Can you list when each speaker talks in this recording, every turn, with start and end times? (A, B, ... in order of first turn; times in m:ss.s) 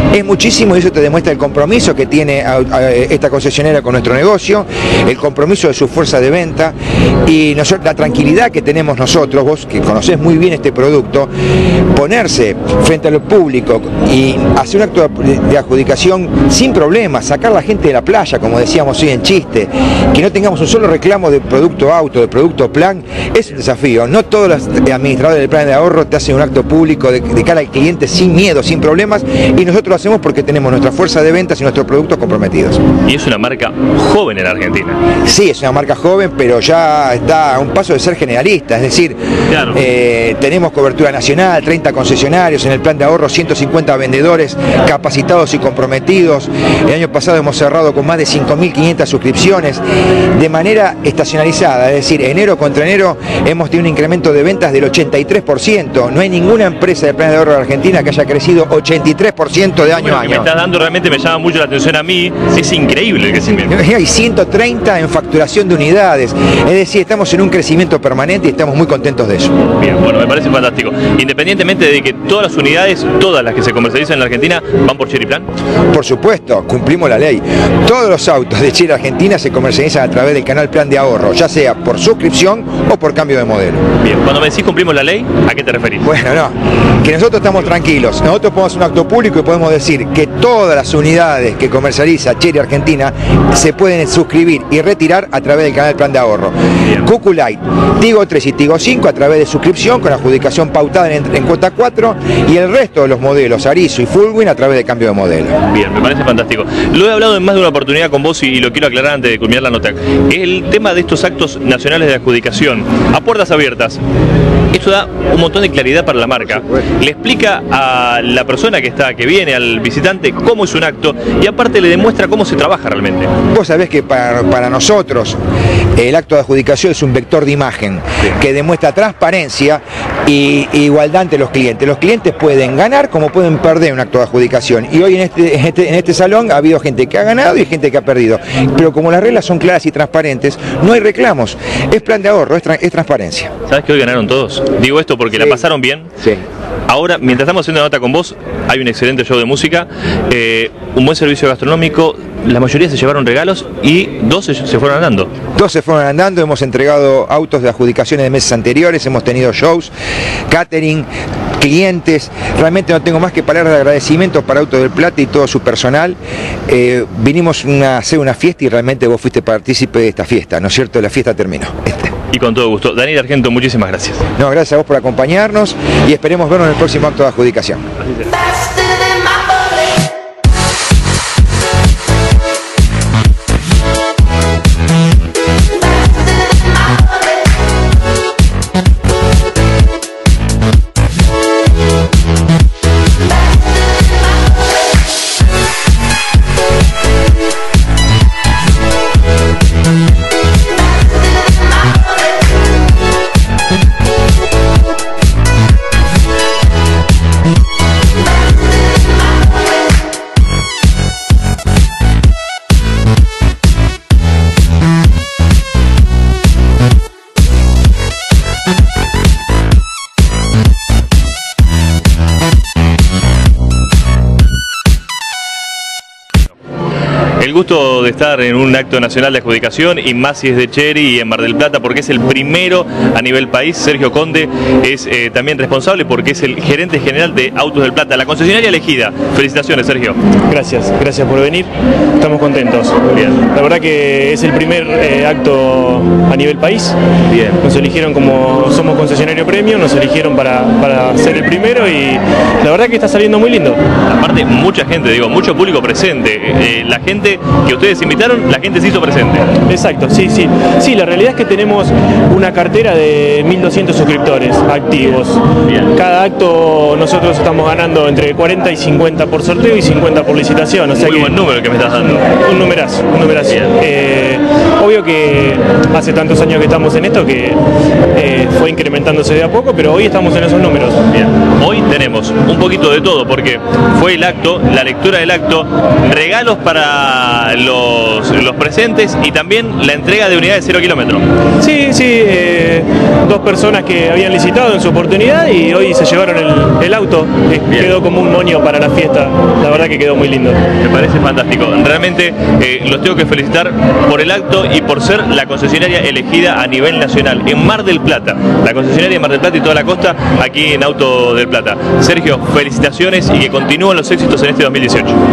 0:00.1-0:11.3 A
0:11.9-0:32.8 A
0:33.0-0:35.0 B
0:35.2-0:39.2 A
0:39.5-0:39.8 B
0:39.7-0:49.8 A
0:50.3-1:00.5 A
0:59.8-1:03.8 B
1:03.6-1:09.5 A
1:09.6-1:15.5 B
1:15.9-1:23.8 A
1:24.0-1:26.1 B
1:26.0-1:45.6 A
1:45.7-1:54.0 B
1:54.7-2:03.3 B
2:03.5-2:05.4 A
2:06.0-2:23.5 A
2:23.7-2:26.1 B
2:25.3-2:25.6 A
2:26.9-2:35.3 B
2:35.6-2:39.9 A
2:40.5-2:41.1 A
2:41.6-2:52.1 A
2:52.3-2:54.2 B
2:54.4-2:57.8 A
3:47.4-4:00.2 B
4:00.5-4:07.0 C
4:03.0-4:03.4 B
4:07.3-4:07.6 B
4:07.6-4:13.8 C
4:14.0-4:19.5 B
4:19.6-4:31.4 C
4:25.6-4:25.9 B
4:30.9-4:32.3 B
4:32.2-4:37.6 C
4:33.4-4:33.7 B
4:38.1-4:41.0 C
4:41.1-4:51.2 B
4:51.6-5:00.6 C
4:57.7-4:57.9 B
5:00.7-5:15.2 B